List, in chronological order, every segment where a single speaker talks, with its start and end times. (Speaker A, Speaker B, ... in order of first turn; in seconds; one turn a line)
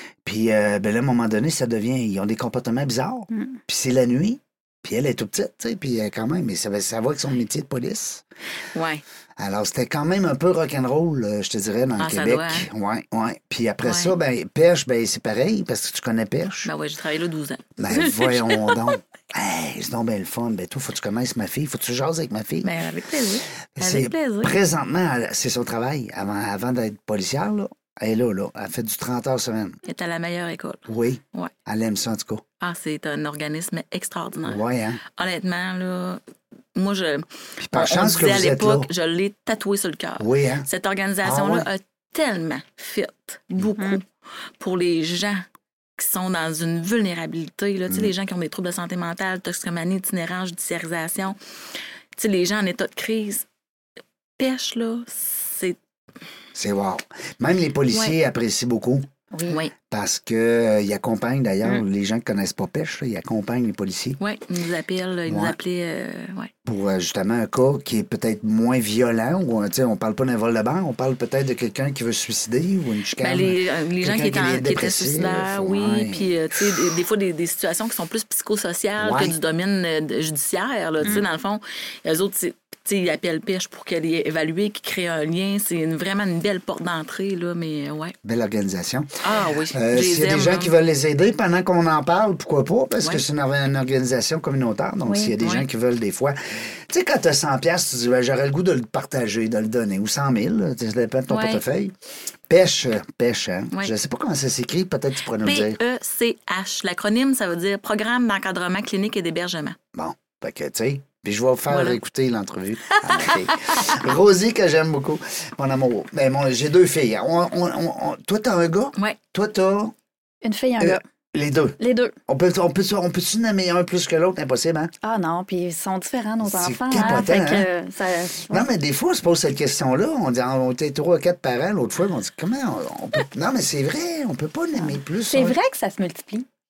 Speaker A: 0.2-8.2
Speaker B: 3.3-3.6
Speaker C: 8.7-9.0
Speaker A: 9.4-16.7
Speaker C: 12.0-12.7
Speaker C: 13.8-14.2
Speaker C: 16.6-18.9
Speaker A: 17.8-22.7
Speaker C: 22.6-24.5
Speaker A: 23.7-29.8
Speaker C: 29.8-31.5
Speaker A: 30.9-32.4
Speaker C: 32.6-36.2
Speaker A: 34.5-35.0
Speaker C: 36.7-44.0
Speaker A: 37.6-38.9
Speaker A: 40.2-40.7
Speaker A: 41.2-41.7
Speaker C: 44.6-45.5
Speaker C: 46.0-51.4
Speaker C: 52.1-53.5
Speaker C: 54.4-55.8
Speaker A: 56.5-59.1
Speaker C: 57.9-58.2
Speaker B: 59.3-59.6
Speaker C: 59.5-59.7
Speaker A: 59.9-64.2
Speaker C: 64.2-66.5
Speaker A: 65.3-65.6
Speaker A: 66.6-76.7
Speaker C: 73.2-88.2
Speaker A: 79.0-79.3
Speaker A: 88.2-89.2
Speaker C: 89.2-90.7
Speaker A: 89.7-101.9
Speaker B: 95.0-95.3
Speaker C: 95.4-95.7
Speaker C: 101.3-101.6
Speaker A: 102.5-105.8
Speaker C: 105.4-109.8
Speaker A: 109.9-119.9
Speaker C: 111.7-112.0
Speaker C: 113.0-113.9
Speaker B: 120.4-121.0
Speaker A: 120.8-124.9
Speaker B: 121.8-122.1
Speaker B: 125.0-128.7
Speaker A: 126.4-127.7
Speaker A: 128.5-135.6
Speaker B: 134.8-136.4